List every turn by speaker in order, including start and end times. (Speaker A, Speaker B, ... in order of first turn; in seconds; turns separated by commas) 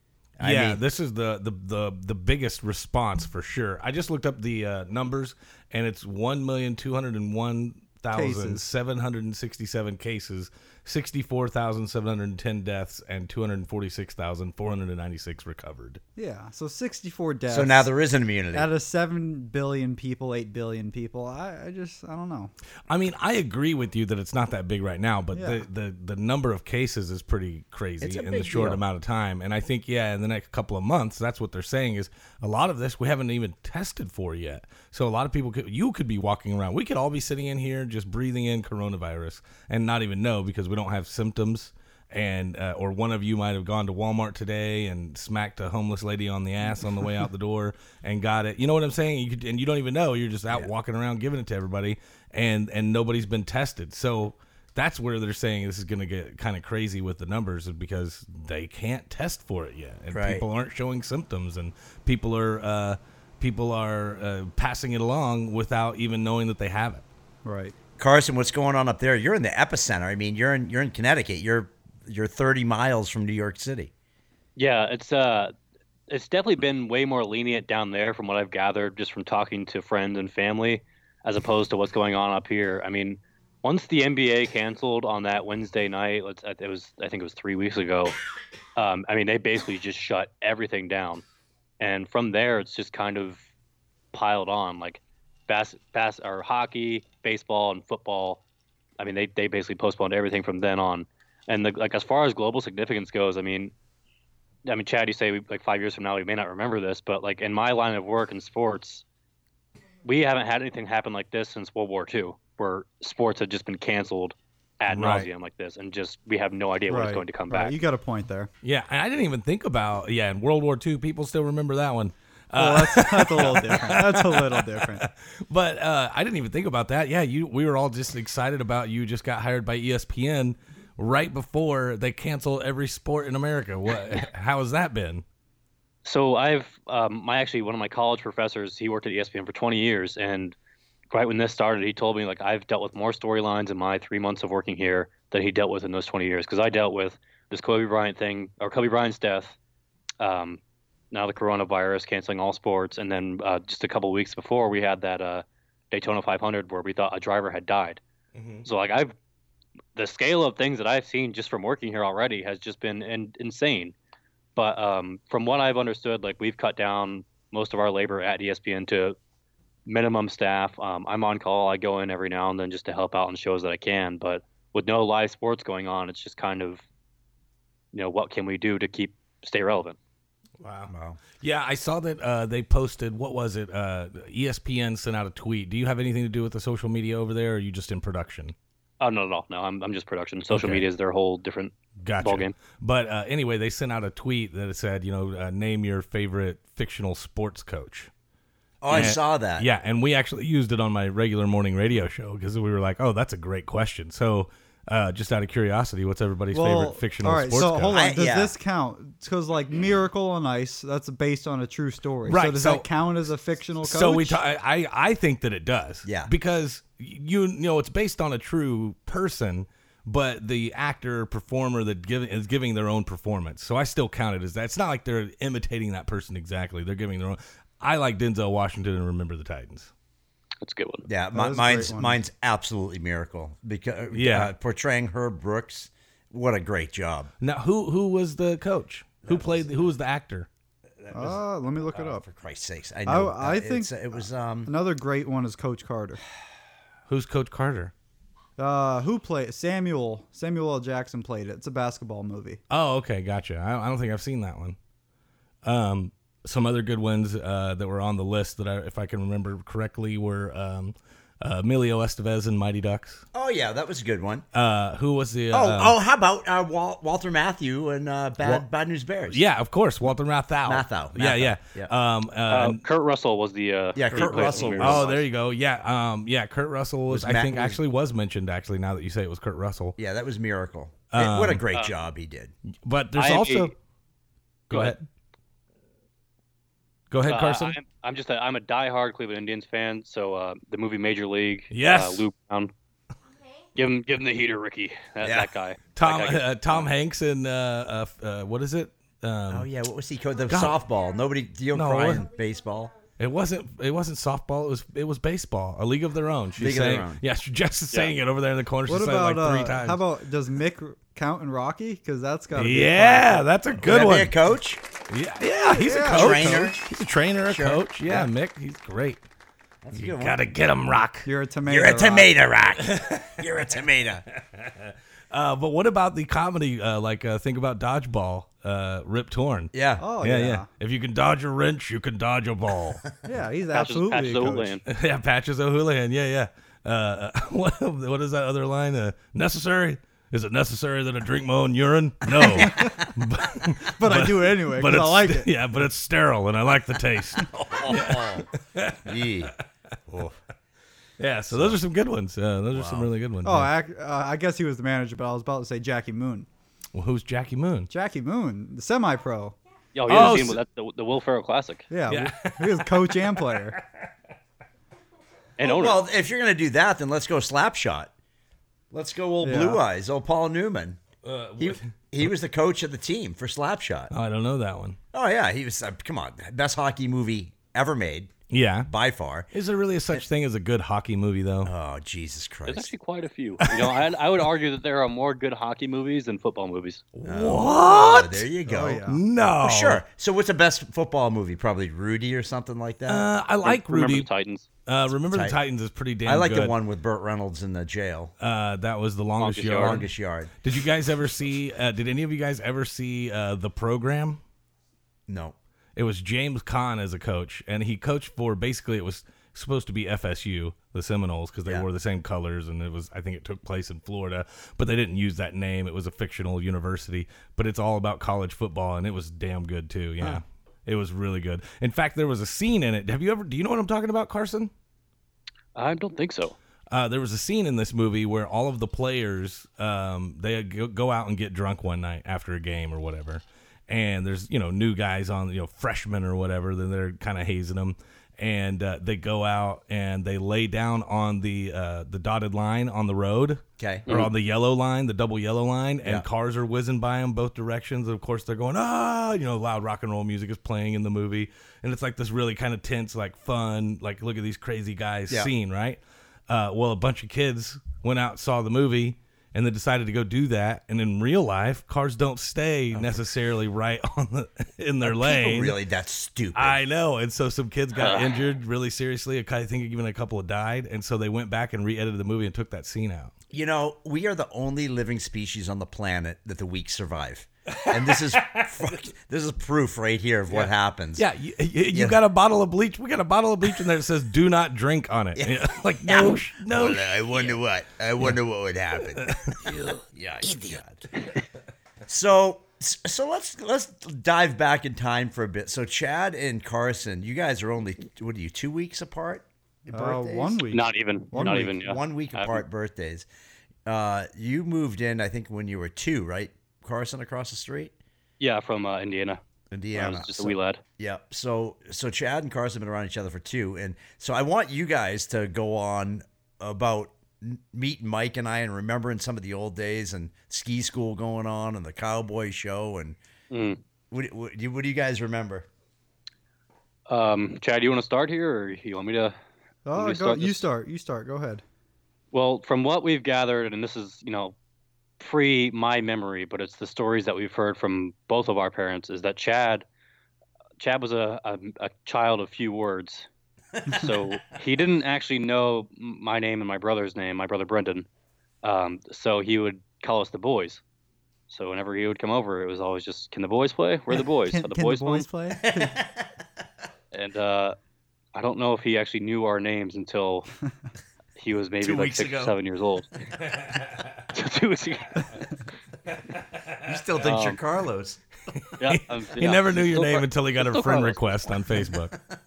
Speaker A: 0.4-0.8, Speaker B: 0.4-16.0, Speaker C: 8.1-8.6, Speaker C: 16.1-17.9, Speaker A: 17.5-18.7, Speaker C: 18.5-22.5, Speaker B: 22.9-67.0, Speaker C: 25.3-25.6, Speaker A: 28.0-28.8, Speaker A: 60.1-60.4, Speaker C: 67.4-67.7, Speaker A: 68.0-73.9, Speaker D: 74.5-75.5, Speaker D: 76.1-88.1, Speaker D: 88.8-91.2, Speaker D: 91.8-93.5, Speaker D: 94.1-98.4, Speaker D: 99.0-103.7, Speaker D: 104.7-109.0, Speaker D: 110.0-117.7, Speaker B: 114.9-115.3, Speaker C: 116.9-118.5, Speaker B: 118.6-135.2, Speaker C: 122.5-125.1, Speaker D: 136.0-140.5, Speaker D: 141.1-149.6, Speaker D: 150.2-150.6, Speaker D: 151.1-158.0, Speaker B: 158.3-158.7, Speaker D: 158.6-159.1, Speaker D: 159.9-163.9, Speaker D: 164.6-169.2, Speaker D: 169.8-176.8, Speaker D: 177.9-180.0, Speaker B: 180.6-188.5, Speaker A: 180.9-181.2, Speaker D: 189.0-192.5, Speaker B: 190.5-190.8, Speaker B: 192.0-198.1, Speaker A: 198.8-199.7, Speaker B: 198.9-207.9, Speaker C: 206.5-214.4, Speaker A: 207.9-208.5, Speaker B: 212.2-212.9, Speaker B: 213.8-229.9, Speaker A: 216.0-216.3, Speaker D: 230.6-231.1, Speaker A: 231.1-237.3, Speaker C: 231.3-232.2, Speaker B: 234.1-234.5, Speaker B: 237.4-240.5, Speaker A: 239.2-239.9, Speaker A: 241.0-244.7, Speaker C: 241.1-242.2, Speaker C: 243.1-243.9, Speaker C: 244.7-246.2, Speaker B: 247.1-247.9, Speaker C: 248.6-252.6, Speaker B: 252.7-254.8, Speaker B: 255.6-263.2, Speaker A: 263.3-264.4, Speaker B: 264.5-266.0, Speaker A: 265.5-269.4, Speaker B: 269.3-272.8, Speaker A: 270.6-271.9, Speaker D: 272.5-275.1, Speaker A: 273.9-275.2, Speaker B: 274.1-280.0, Speaker A: 277.1-277.8, Speaker A: 280.0-282.5, Speaker B: 281.1-281.6, Speaker B: 282.8-283.7, Speaker D: 283.1-283.7, Speaker D: 284.7-284.9, Speaker B: 284.7-285.0, Speaker B: 287.1-287.8, Speaker D: 287.2-292.7, Speaker B: 291.7-292.2, Speaker D: 293.7-296.8, Speaker A: 295.2-295.5, Speaker B: 295.9-299.7, Speaker A: 299.5-302.9, Speaker B: 300.5-300.8, Speaker B: 301.7-302.3, Speaker B: 303.2-310.0, Speaker A: 306.6-307.2, Speaker C: 308.9-313.4, Speaker B: 312.5-314.4, Speaker A: 313.8-314.8, Speaker B: 315.1-319.2, Speaker C: 315.7-316.7, Speaker A: 316.0-316.8, Speaker A: 317.5-318.3, Speaker A: 319.8-320.4, Speaker B: 319.9-321.3, Speaker C: 321.2-322.3, Speaker A: 321.7-324.2, Speaker B: 322.9-323.4, Speaker B: 324.3-333.1, Speaker A: 329.7-330.1, Speaker C: 330.0-330.6, Speaker C: 333.2-334.8, Speaker D: 333.7-334.8, Speaker B: 334.9-349.5, Speaker A: 342.4-342.9, Speaker C: 342.5-343.1, Speaker C: 344.0-345.5, Speaker A: 347.5-348.4, Speaker A: 349.0-349.5, Speaker A: 350.1-350.4, Speaker B: 351.2-353.7, Speaker A: 351.5-351.8, Speaker A: 352.7-353.1, Speaker C: 353.4-356.5, Speaker B: 356.9-357.9, Speaker C: 357.9-359.6, Speaker D: 359.9-361.9, Speaker B: 360.1-360.6, Speaker C: 361.9-363.8, Speaker B: 362.1-364.1, Speaker D: 365.6-366.0, Speaker A: 365.6-368.1, Speaker A: 368.9-371.0, Speaker C: 369.4-369.8, Speaker B: 371.2-371.9, Speaker A: 371.6-374.1, Speaker B: 374.1-375.0, Speaker A: 375.1-378.3, Speaker B: 378.5-378.9, Speaker A: 378.8-379.5, Speaker B: 379.5-381.7, Speaker A: 381.6-382.9, Speaker D: 382.7-387.0, Speaker B: 383.6-383.9, Speaker B: 387.1-388.5, Speaker A: 387.2-389.0, Speaker C: 388.6-389.2, Speaker B: 389.0-390.0, Speaker A: 389.6-393.3, Speaker B: 393.1-394.3, Speaker D: 393.6-394.7, Speaker B: 394.9-396.8, Speaker A: 395.3-395.6, Speaker A: 396.2-398.3, Speaker B: 398.4-404.4, Speaker D: 399.4-400.0, Speaker A: 399.7-400.5, Speaker A: 405.3-405.6, Speaker B: 405.9-424.7, Speaker D: 425.8-426.6, Speaker B: 426.9-465.8, Speaker A: 443.8-444.1, Speaker A: 462.9-463.2, Speaker A: 465.0-466.8, Speaker B: 466.5-473.3, Speaker D: 467.9-468.3, Speaker A: 473.5-481.2, Speaker B: 477.8-478.6, Speaker B: 480.5-487.4, Speaker A: 481.9-482.2, Speaker A: 485.4-491.0, Speaker B: 489.1-490.0, Speaker A: 492.1-500.6, Speaker C: 499.9-501.7, Speaker D: 500.7-502.6, Speaker A: 501.3-503.2, Speaker A: 503.9-507.9, Speaker D: 508.4-509.4, Speaker A: 509.7-523.2, Speaker D: 509.9-510.8, Speaker D: 523.5-523.8, Speaker A: 524.1-525.7, Speaker D: 527.1-529.3, Speaker C: 529.9-531.6, Speaker D: 529.9-530.6, Speaker D: 532.3-534.5, Speaker D: 535.2-539.9, Speaker D: 540.8-543.3, Speaker A: 543.8-544.1, Speaker D: 543.9-548.1, Speaker D: 548.6-550.8, Speaker D: 551.5-555.3, Speaker C: 554.4-556.0, Speaker A: 555.6-556.3, Speaker D: 557.1-557.8, Speaker D: 558.3-560.5, Speaker D: 561.4-563.4, Speaker A: 561.8-562.5, Speaker B: 563.4-564.1, Speaker D: 564.3-565.3, Speaker B: 566.3-566.9, Speaker A: 566.8-568.2, Speaker D: 567.2-567.6, Speaker B: 568.5-572.1, Speaker D: 568.8-571.4